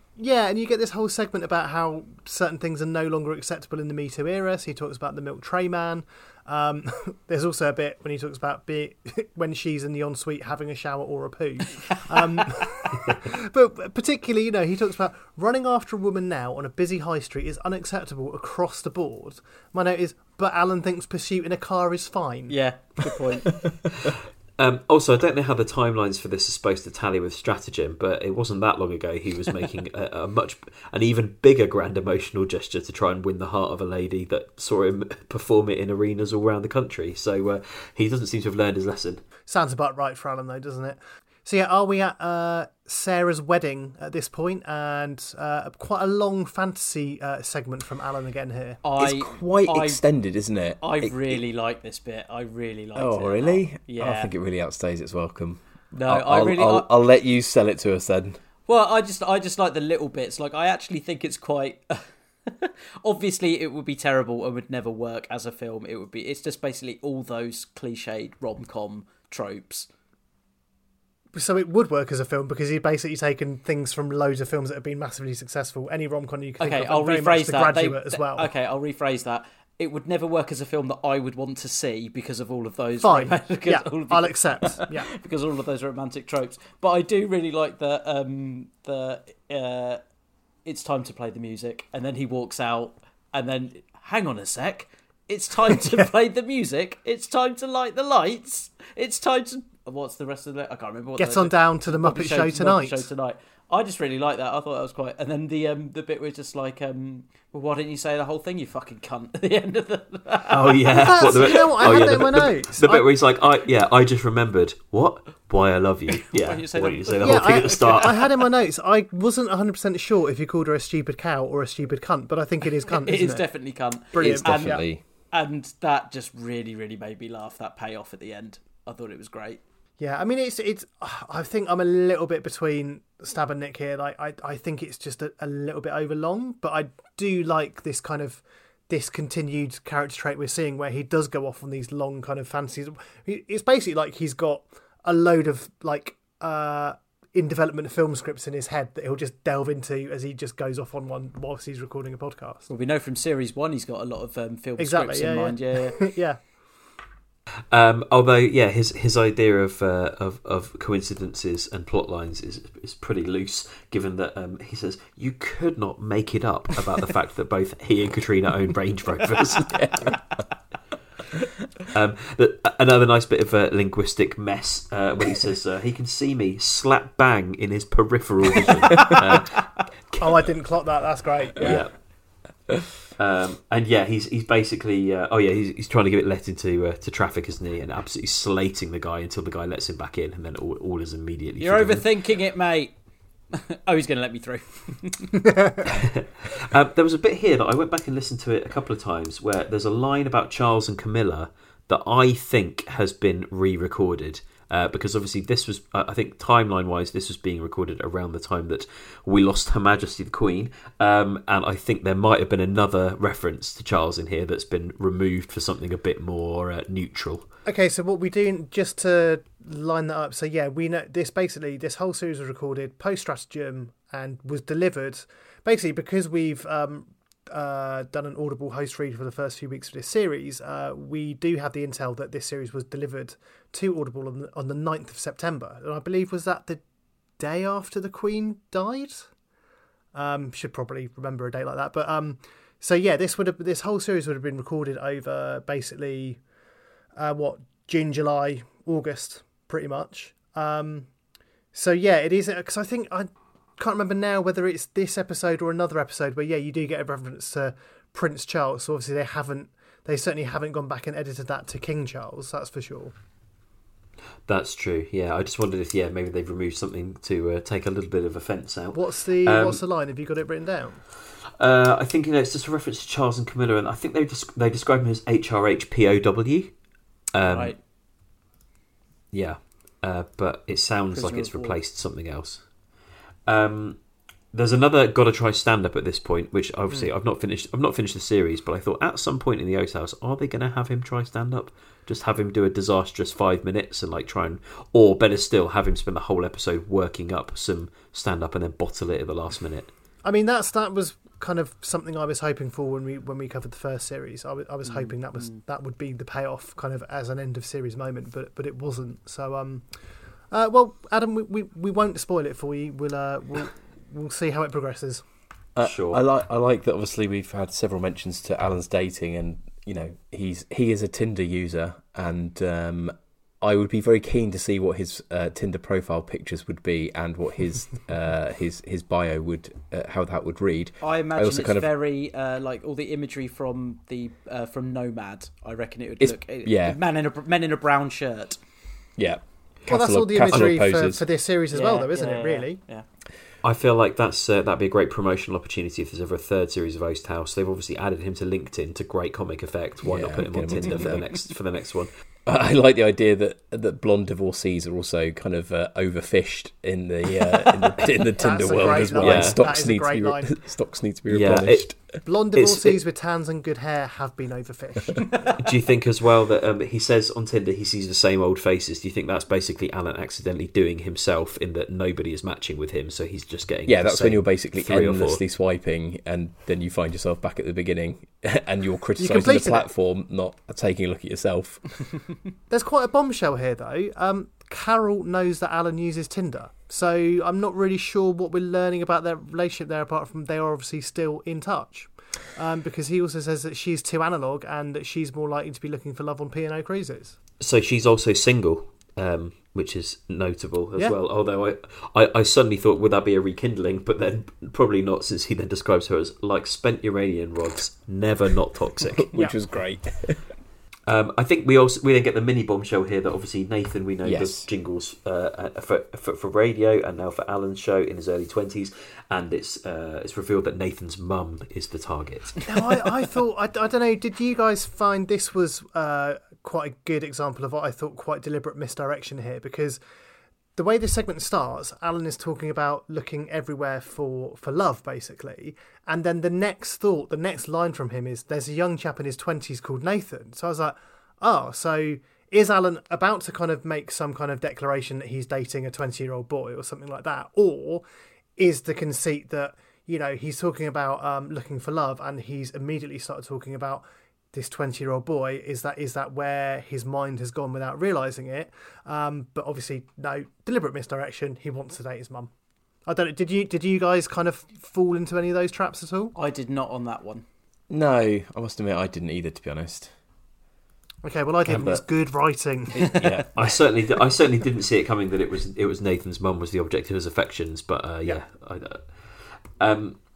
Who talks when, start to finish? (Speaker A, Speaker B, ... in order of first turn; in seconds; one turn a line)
Speaker A: 0.2-22.6
Speaker B: 22.5-23.6
Speaker C: 24.6-39.2
Speaker A: 39.5-48.8
Speaker B: 48.8-50.0
Speaker D: 49.0-51.4
Speaker B: 50.8-54.3
Speaker D: 52.9-58.4
Speaker B: 55.9-56.9
Speaker B: 58.7-69.9
Speaker A: 71.3-78.5
Speaker B: 76.6-90.0
Speaker A: 83.0-85.1
Speaker B: 90.6-112.2
Speaker A: 101.2-103.1
Speaker C: 110.5-118.2
Speaker A: 111.0-113.1
Speaker B: 116.3-118.3
Speaker A: 117.2-124.8
Speaker B: 122.9-129.6
Speaker D: 124.2-125.0
Speaker A: 130.0-152.7
Speaker B: 152.7-156.0
Speaker A: 154.8-156.4
Speaker C: 157.7-169.7
Speaker D: 169.7-170.2
Speaker C: 171.9-179.7
Speaker A: 180.2-181.8
Speaker C: 181.6-181.9
Speaker C: 183.2-192.1
Speaker B: 191.6-192.9
Speaker B: 193.5-195.5
Speaker C: 195.8-217.4
Speaker A: 217.6-236.8
Speaker A: 237.4-239.3
Speaker A: 240.1-246.4
Speaker A: 247.1-251.1
Speaker A: 251.7-263.1
Speaker C: 264.5-269.8
Speaker A: 268.9-271.0
Speaker C: 271.6-276.7
Speaker C: 277.3-277.8
Speaker B: 277.4-277.8
Speaker C: 279.3-282.7
Speaker B: 281.1-281.8
Speaker C: 283.5-284.0
Speaker C: 284.5-299.9
Speaker A: 300.2-309.9
Speaker B: 304.8-305.6
Speaker A: 310.5-315.2
Speaker D: 315.7-331.9
Speaker C: 315.8-316.2
Speaker B: 331.0-338.6
Speaker D: 336.2-337.0
Speaker D: 339.2-341.3
Speaker A: 339.9-342.8
Speaker B: 341.7-343.0
Speaker C: 343.6-352.1
Speaker D: 350.0-351.3
Speaker D: 352.4-362.2
Speaker A: 358.4-360.5
Speaker C: 358.8-359.6
Speaker C: 361.3-361.9
Speaker A: 362.2-365.5
Speaker C: 362.5-363.0
Speaker C: 365.6-375.4
Speaker D: 373.8-382.0
Speaker A: 379.2-379.9
Speaker A: 382.7-397.4
Speaker C: 397.6-409.3
Speaker D: 409.2-410.4
Speaker C: 411.1-422.6
Speaker D: 414.2-414.7
Speaker A: 422.6-430.0
Speaker A: 430.8-448.0
Speaker A: 448.6-462.5
Speaker A: 463.1-466.3
Speaker B: 466.3-467.4
Speaker D: 467.9-470.1
Speaker A: 471.2-473.4
Speaker D: 471.7-472.1
Speaker D: 472.9-473.7
Speaker C: 473.5-480.2